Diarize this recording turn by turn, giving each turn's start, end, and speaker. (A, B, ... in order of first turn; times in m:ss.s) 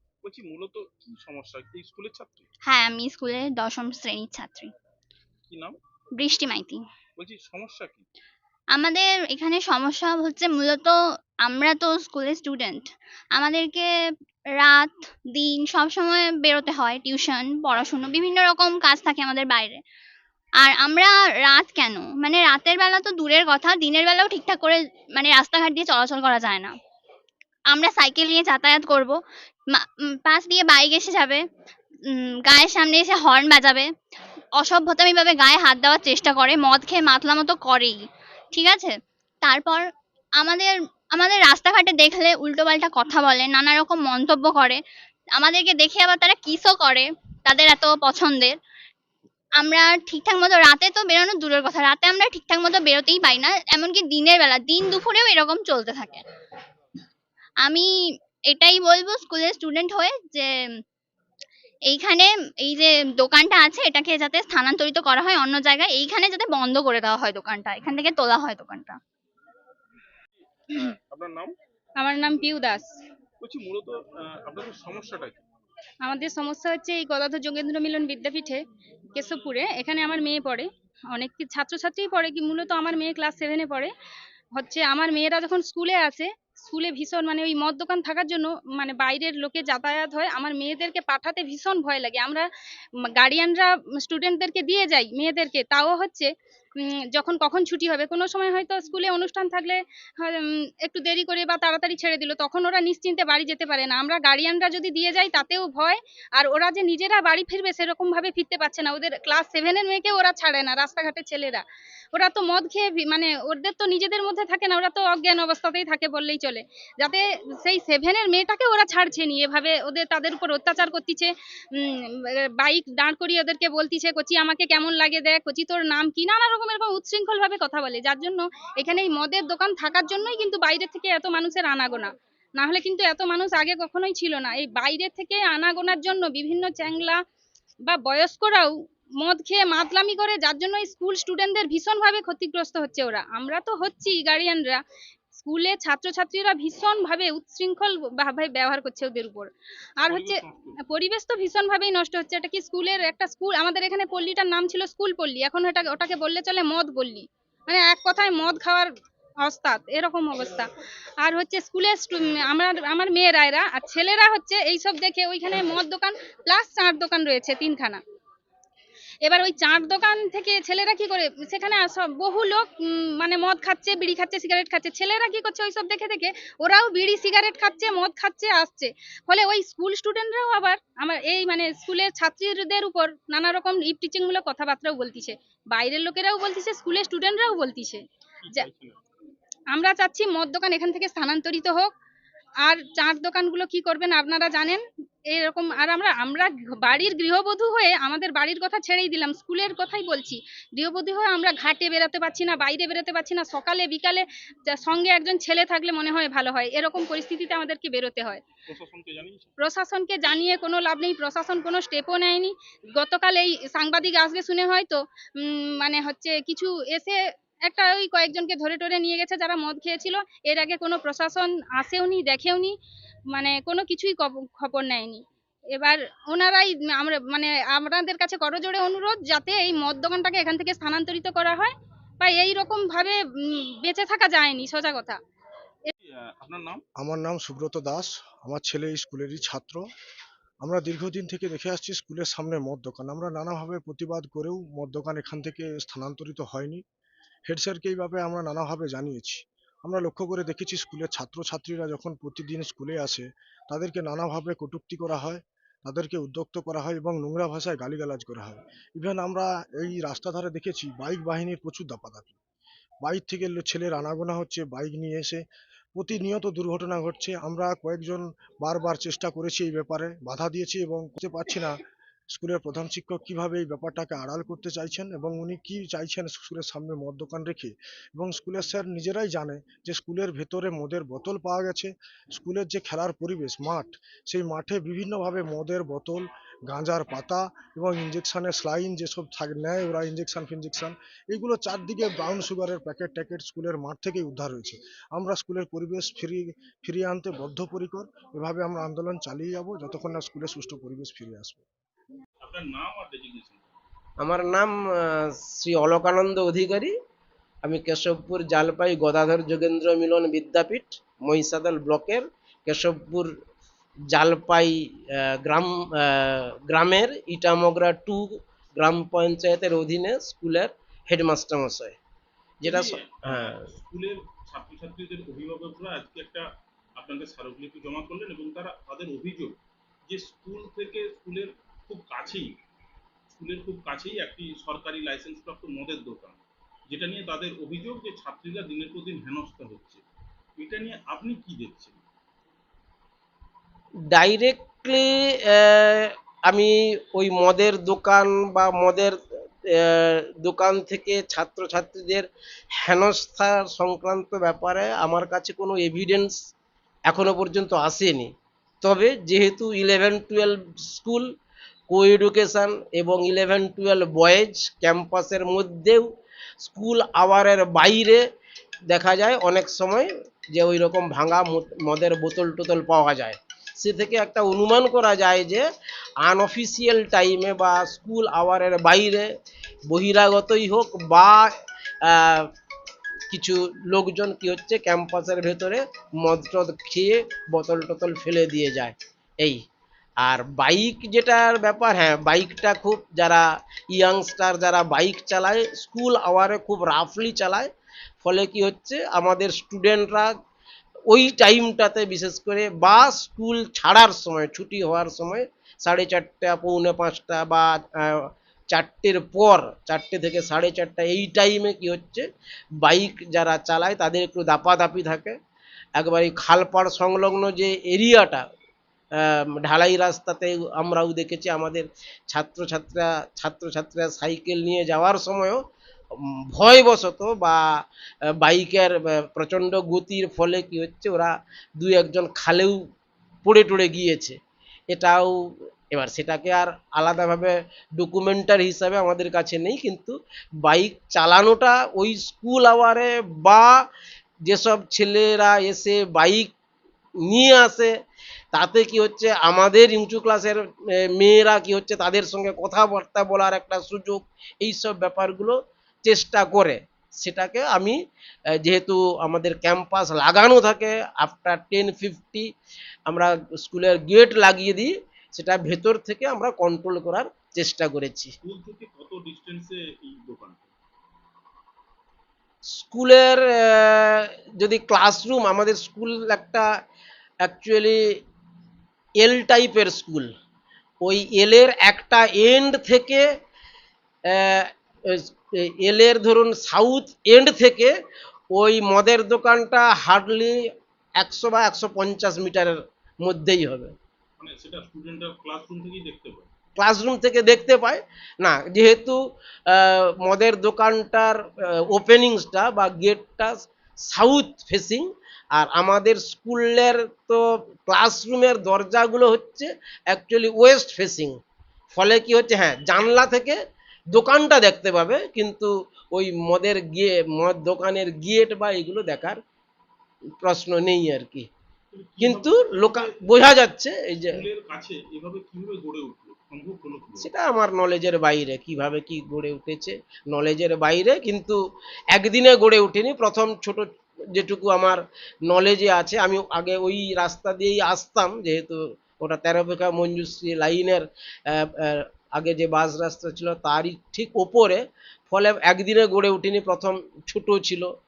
0:00.2-0:02.4 A
0:02.6-0:04.7 B
0:05.5-0:05.8 A
0:06.2-0:06.8 B
0:07.2-0:08.0 A
0:08.7-0:13.8 B
0:14.6-0:19.8 B
0:20.6-0:26.7 B
0:27.7-0:29.2 B
0:29.7-0:31.4 B
0:32.0-0:33.9 B
0:34.6-0:38.0 B
0:38.5-0:39.8 B
0:40.4-0:44.8 B
0:45.4-0:48.6 B
0:49.6-0:56.2 B
0:58.5-1:00.5 B
1:01.9-1:09.0 B
1:10.4-1:11.5 A
1:12.0-1:12.9 C
1:13.4-1:15.4 A
1:16.1-1:18.6 C
1:19.1-1:23.9 C
1:24.6-1:32.4 C
1:33.2-1:36.3 C
1:37.1-1:51.6 C
1:52.1-2:02.0 C
2:02.6-2:17.2 C
2:17.9-2:24.8 C
2:25.4-2:29.5 C
2:30.0-2:38.9 C
2:30.1-2:30.8 A
2:39.4-2:40.7 C
2:41.2-2:48.0 C
2:49.2-2:52.6 C
2:53.2-3:08.0 C
3:08.4-3:09.0 A
3:09.7-3:11.9 C
3:12.7-3:14.8 C
3:15.3-3:28.4 C
3:28.7-3:29.5 A
3:29.6-3:37.1 C
3:37.7-3:42.7 C
3:43.3-3:45.2 C
3:45.8-3:55.2 C
3:56.0-3:56.8 A
3:57.0-3:59.8 D
4:00.6-4:06.8 D
4:07.5-4:22.3 D
4:23.0-4:25.4 D
4:25.9-4:31.8 D
4:32.3-5:01.6 D
5:02.4-5:03.7 A
5:04.2-5:06.9 E
5:07.6-5:13.3 E
5:14.1-5:14.7 E
5:15.3-5:22.0 E
5:22.6-5:29.6 A
5:22.6-5:23.6 E
5:30.1-5:32.6 A
5:33.3-5:40.0 A
5:40.6-5:42.0 A
5:44.1-5:49.2 E
5:49.7-5:52.2 E
5:52.8-5:56.3 E
5:57.1-5:58.3 E
5:58.8-6:01.2 E
6:01.9-6:06.0 E
6:06.6-6:08.2 E
6:08.9-6:15.6 E
6:16.2-6:19.2 E
6:19.9-6:21.5 E
6:22.1-6:22.4 E
6:23.3-6:29.6 E
6:30.2-6:37.7 E
6:38.2-6:40.3 E
6:41.1-6:52.2 E
6:52.8-6:55.3 E
6:56.0-6:58.4 E
6:59.6-7:05.6 E
7:06.5-7:07.6 E
7:08.4-7:12.7 E
7:13.4-7:14.4 E
7:14.9-7:15.4 E
7:15.9-7:23.7 E
7:24.5-7:26.5 E
7:27.3-7:27.9 E
7:28.5-7:30.6 E
7:31.2-7:38.0 E
7:38.6-7:42.4 E
7:43.1-7:48.3 E
7:48.4-7:50.7 A
7:52.8-7:56.6 E
7:57.4-7:58.0 E
7:59.2-8:00.3 E
8:01.0-8:03.2 E
8:04.3-8:05.2 E
8:05.8-8:07.9 E
8:08.5-8:10.6 E
8:11.2-8:13.9 E
8:14.4-8:16.5 A
8:16.8-8:19.2 E
8:19.7-8:31.4 E
8:31.9-8:33.6 E
8:34.1-8:39.4 E
8:40.4-8:41.5 E
8:41.9-8:43.5 A
8:42.2-8:44.4 E
8:44.3-8:47.3 A
8:47.2-8:51.6 E
8:52.1-9:07.9 E